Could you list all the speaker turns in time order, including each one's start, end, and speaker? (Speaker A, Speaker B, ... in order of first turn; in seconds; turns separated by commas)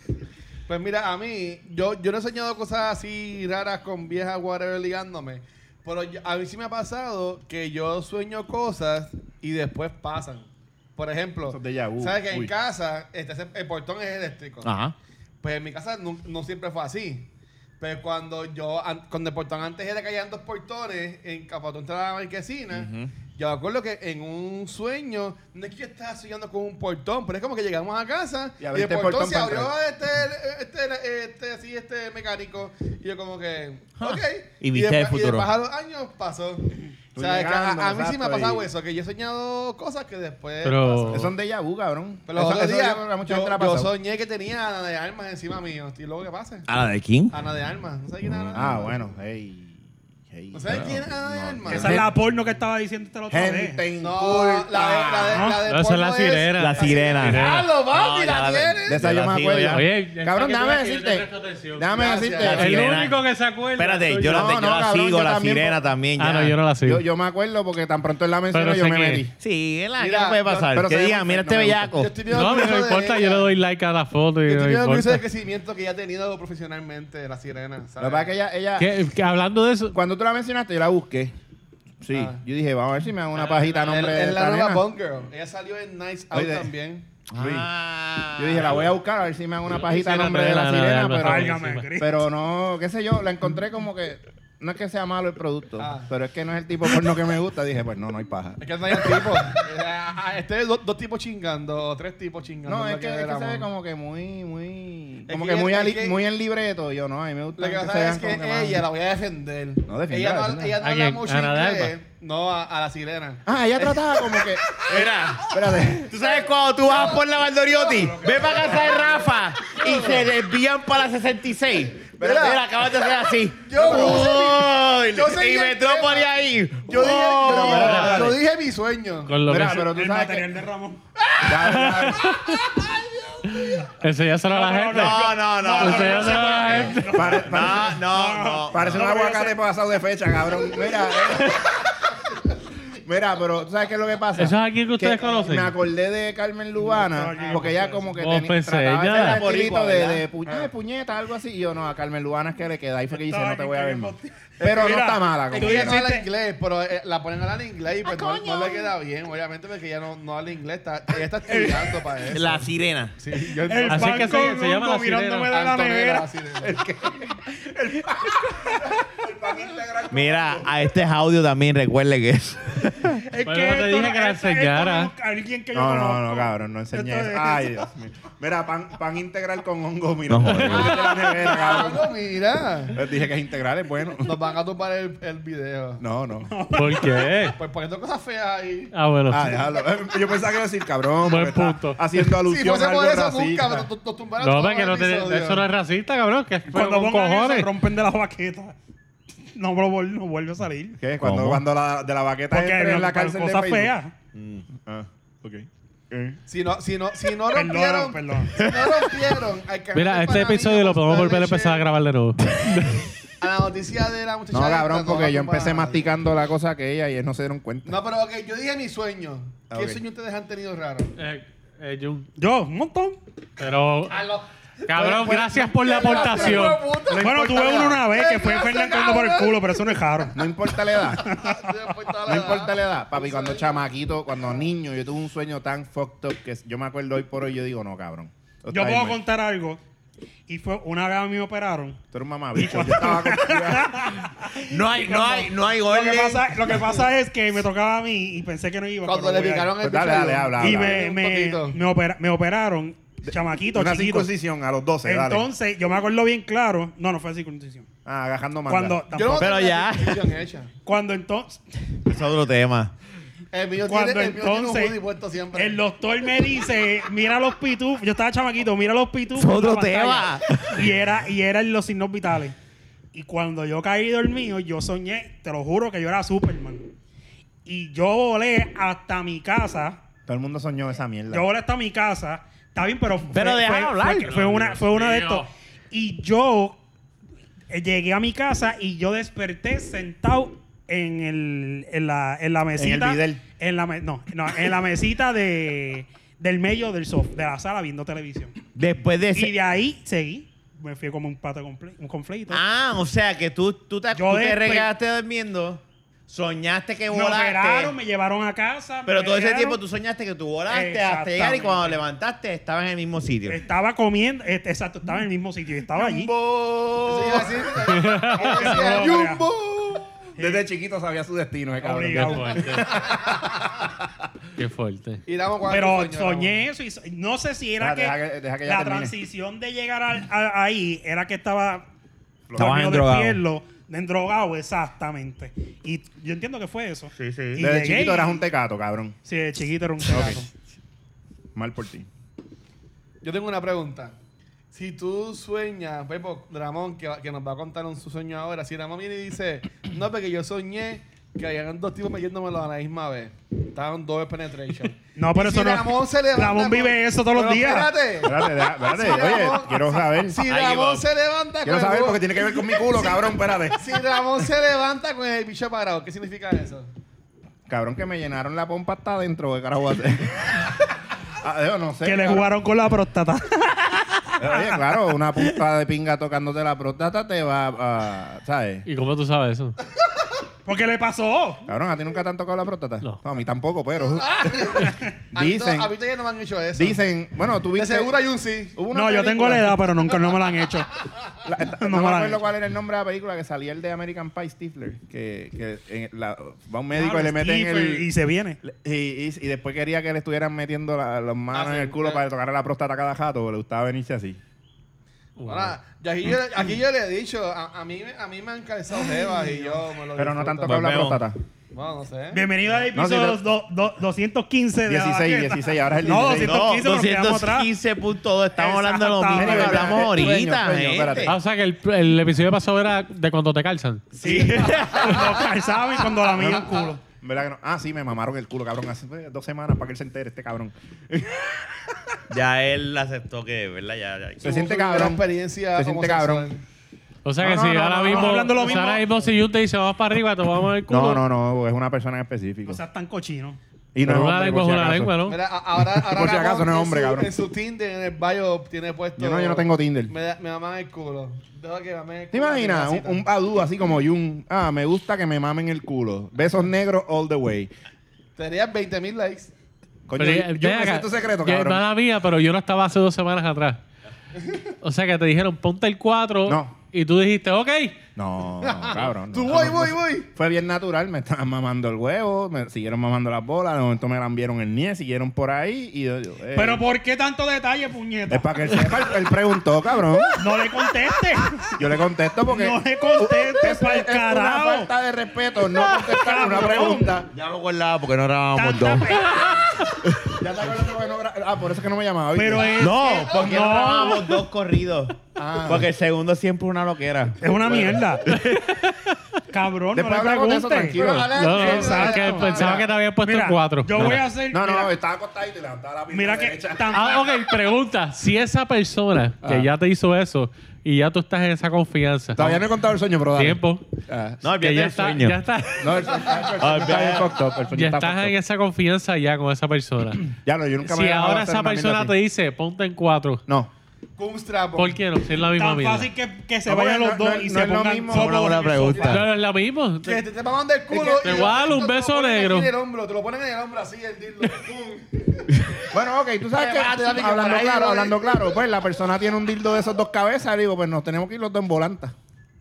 Speaker A: 0.7-14.7, Speaker B: 11.5-12.5, Speaker C: 14.6-14.9, Speaker A: 15.4-17.3, Speaker A: 17.8-41.3, Speaker C: 22.7-23.2, Speaker B: 28.6-29.7, Speaker C: 34.0-35.5, Speaker B: 37.1-38.7, Speaker D: 40.6-41.3, Speaker B: 41.1-43.9, Speaker A: 42.3-46.7, Speaker C: 46.7-47.3, Speaker A: 47.3-49.1, Speaker C: 48.4-48.6, Speaker B: 48.5-52.1, Speaker A: 50.5-52.1, Speaker C: 50.7-51.0, Speaker E: 51.7-53.8, Speaker B: 53.3-55.5, Speaker A: 54.0-59.0, Speaker E: 55.3-55.6, Speaker D: 55.7-57.7, Speaker C: 56.5-59.9, Speaker B: 58.9-63.0, Speaker D: 59.7-64.5, Speaker A: 61.9-62.8, Speaker C: 62.4-63.2, Speaker C: 63.8-66.6, Speaker B: 64.3-65.8, Speaker D: 66.2-67.0, Speaker B: 66.8-69.3, Speaker D: 68.5-69.2, Speaker C: 69.4-72.1, Speaker A: 70.0-70.8, Speaker B: 70.7-72.0, Speaker A: 71.9-73.5, Speaker D: 72.3-75.2, Speaker A: 74.5-78.3, Speaker B: 78.0-78.9, Speaker D: 78.8-80.0, Speaker B: 79.9-81.3, Speaker B: 82.0-84.8, Speaker A: 82.1-82.4, Speaker A: 83.4-87.1, Speaker B: 86.3-86.7, Speaker C: 87.3-88.9, Speaker B: 87.3-87.7, Speaker B: 88.4-99.5, Speaker D: 89.8-91.9, Speaker E: 91.2-92.2, Speaker A: 95.8-96.1, Speaker A: 98.6-103.7, Speaker B: 102.7-108.9, Speaker A: 105.3-106.2, Speaker A: 107.6-115.3, Speaker B: 109.9-110.8, Speaker D: 110.8-112.0, Speaker B: 113.5-114.8, Speaker C: 114.8-115.5, Speaker B: 115.4-116.2, Speaker C: 116.0-128.2, Speaker A: 116.1-120.3, Speaker A: 122.1-122.7, Speaker B: 122.2-122.5, Speaker A: 123.6-129.4, Speaker B: 127.2-128.4, Speaker D: 127.7-128.3, Speaker D: 129.2-129.9, Speaker B: 129.5-130.5, Speaker E: 129.6-131.0, Speaker B: 131.4-132.4, Speaker D: 131.5-132.7, Speaker D: 133.5-137.4, Speaker E: 134.4-139.6, Speaker C: 134.9-139.1, Speaker B: 136.7-138.0, Speaker B: 138.7-141.9, Speaker D: 141.3-141.7, Speaker B: 142.9-156.0, Speaker D: 144.4-145.8, Speaker E: 146.8-148.2, Speaker D: 148.2-149.4, Speaker C: 149.2-150.3, Speaker E: 153.1-156.3, Speaker A: 154.6-164.6, Speaker C: 158.1-158.9, Speaker E: 161.5-162.0, Speaker C: 162.3-163.2, Speaker E: 163.6-166.3, Speaker D: 163.9-165.5, Speaker A: 165.5-166.8, Speaker B: 166.6-170.7, Speaker C: 170.1-173.2, Speaker E: 173.2-177.7, Speaker D: 173.5-175.1, Speaker B: 175.7-182.1, Speaker C: 180.3-181.0, Speaker D: 180.5-180.9, Speaker A: 180.7-183.0, Speaker B: 182.9-184.3, Speaker A: 184.2-186.0, Speaker B: 186.0-186.5, Speaker E: 186.5-187.3, Speaker D: 186.7-187.6, Speaker A: 187.6-188.9, Speaker D: 188.9-189.6, Speaker B: 189.3-193.9, Speaker D: 191.2-192.1, Speaker A: 192.4-195.7, Speaker D: 194.4-197.7, Speaker E: 196.7-198.8, Speaker E: 199.6-201.0, Speaker B: 201.0-203.9, Speaker C: 201.2-201.6, Speaker E: 202.5-204.1, Speaker C: 204.3-204.7, Speaker B: 204.8-206.4, Speaker A: 206.5-211.9, Speaker E: 207.5-208.6, Speaker C: 208.6-209.2, Speaker D: 209.9-213.1, Speaker A: 213.4-216.1, Speaker B: 214.5-218.0, Speaker A: 217.8-221.1, Speaker B: 219.7-220.0, Speaker D: 221.2-222.3, Speaker E: 222.4-223.2, Speaker D: 223.6-224.2, Speaker A: 224.1-224.5, Speaker D: 224.9-226.8, Speaker B: 224.9-228.0, Speaker A: 225.7-229.8, Speaker E: 227.2-230.4, Speaker B: 230.3-231.2, Speaker A: 231.2-233.8, Speaker E: 231.2-231.9, Speaker B: 232.2-239.2, Speaker E: 238.7-239.8, Speaker E: 240.5-242.0, Speaker B: 242.1-244.1, Speaker E: 242.6-249.8, Speaker C: 244.5-246.9, Speaker A: 249.0-251.8, Speaker B: 249.8-251.0, Speaker E: 250.6-254.3, Speaker B: 253.2-255.5, Speaker E: 255.0-257.9, Speaker B: 258.1-259.0, Speaker E: 258.7-259.6, Speaker A: 259.1-260.7, Speaker C: 259.4-260.3, Speaker E: 260.9-261.6, Speaker C: 262.1-262.9, Speaker A: 263.5-265.8, Speaker E: 263.9-265.0, Speaker E: 265.5-272.6, Speaker C: 269.4-270.9, Speaker E: 273.1-276.9, Speaker E: 277.6-280.0, Speaker B: 280.3-281.5, Speaker E: 281.3-286.8, Speaker C: 283.3-284.3, Speaker D: 284.2-285.5, Speaker E: 287.7-298.6, Speaker B: 292.8-293.4, Speaker C: 298.8-299.6, Speaker E: 299.3-302.6, Speaker C: 302.5-307.9, Speaker E: 304.1-304.9, Speaker E: 307.1-309.8, Speaker C: 309.1-313.6, Speaker E: 310.7-312.0, Speaker E: 313.5-316.3, Speaker C: 316.0-317.6, Speaker A: 317.0-320.2, Speaker D: 317.8-318.8, Speaker E: 318.4-319.4, Speaker E: 320.4-320.6, Speaker B: 320.4-323.8, Speaker E: 321.8-322.7, Speaker D: 322.1-322.9, Speaker D: 324.6-325.2, Speaker A: 325.2-326.6, Speaker E: 325.7-331.9, Speaker B: 327.8-329.1, Speaker B: 332.5-332.8, Speaker C: 332.6-333.4, Speaker E: 332.6-338.4, Speaker C: 337.1-337.6, Speaker B: 337.6-339.1, Speaker E: 339.2-340.5, Speaker B: 340.1-340.4, Speaker B: 341.6-342.1, Speaker A: 343.2-344.1, Speaker A: 344.7-366.9, Speaker E: 355.2-357.9, Speaker B: 358.2-360.4, Speaker C: 360.4-361.1, Speaker B: 361.6-364.5, Speaker B: 367.7-372.5, Speaker E: 372.0-374.8, Speaker B: 374.4-378.9, Speaker D: 378.9-379.8, Speaker E: 380.7-381.6, Speaker B: 381.7-385.9, Speaker A: 384.4-387.0, Speaker B: 386.8-388.1, Speaker A: 387.7-388.8, Speaker B: 388.8-389.8, Speaker E: 388.9-390.9, Speaker B: 391.4-398.1, Speaker E: 391.8-392.4, Speaker E: 396.9-398.6, Speaker B: 398.6-404.4, Speaker A: 401.5-402.2, Speaker D: 405.4-405.8, Speaker A: 405.5-411.1, Speaker B: 409.7-411.4, Speaker C: 410.6-411.2, Speaker A: 411.7-412.5, Speaker E: 412.3-417.7, Speaker B: 412.9-413.4, Speaker B: 414.9-416.7, Speaker C: 416.3-421.4, Speaker E: 418.6-420.1, Speaker B: 419.3-421.4, Speaker D: 421.2-424.1, Speaker C: 424.1-425.5, Speaker E: 424.2-427.0, Speaker B: 426.4-432.2, Speaker C: 432.3-434.5, Speaker B: 434.4-435.2, Speaker A: 434.4-436.6, Speaker B: 435.7-436.5, Speaker D: 437.2-441.2, Speaker B: 437.4-438.5, Speaker E: 438.0-439.1, Speaker B: 440.9-442.8, Speaker E: 442.7-443.6, Speaker B: 443.9-445.2, Speaker D: 444.0-445.4, Speaker A: 445.3-453.2, Speaker B: 445.8-447.3, Speaker B: 449.2-450.1, Speaker B: 452.3-457.7, Speaker A: 458.4-459.5, Speaker B: 460.1-461.8, Speaker D: 460.2-463.8, Speaker D: 464.8-468.0, Speaker B: 466.5-466.8, Speaker B: 468.2-476.8, Speaker A: 468.6-470.3, Speaker E: 476.5-479.1, Speaker B: 478.3-480.4, Speaker E: 480.4-481.7, Speaker B: 481.8-487.3, Speaker E: 482.5-484.9, Speaker E: 485.9-487.2, Speaker C: 487.3-489.2, Speaker E: 488.6-489.7, Speaker C: 490.1-490.4, Speaker B: 490.3-493.0, Speaker E: 492.4-494.4, Speaker C: 492.8-498.6, Speaker A: 493.2-493.7, Speaker B: 495.4-495.9, Speaker E: 497.4-498.3, Speaker D: 498.3-499.2, Speaker E: 499.5-504.9, Speaker B: 499.9-502.9, Speaker A: 500.9-502.9, Speaker D: 501.4-504.2, Speaker B: 504.0-507.0, Speaker E: 506.1-507.2, Speaker D: 506.9-512.6, Speaker B: 509.4-509.7, Speaker B: 512.4-514.4, Speaker D: 513.4-513.9, Speaker C: 514.4-515.4, Speaker D: 514.5-516.4, Speaker B: 515.8-518.4, Speaker C: 516.6-517.4, Speaker D: 517.7-523.4, Speaker B: 520.3-522.1, Speaker B: 523.5-523.7, Speaker A: 524.2-525.0, Speaker D: 524.8-526.1, Speaker E: 525.5-529.2, Speaker B: 526.7-528.5, Speaker C: 528.1-529.2, Speaker A: 528.9-529.2, Speaker D: 529.0-530.2, Speaker A: 530.0-535.9, Speaker B: 530.9-531.5, Speaker D: 531.1-532.7, Speaker B: 535.9-542.1, Speaker A: 536.5-538.5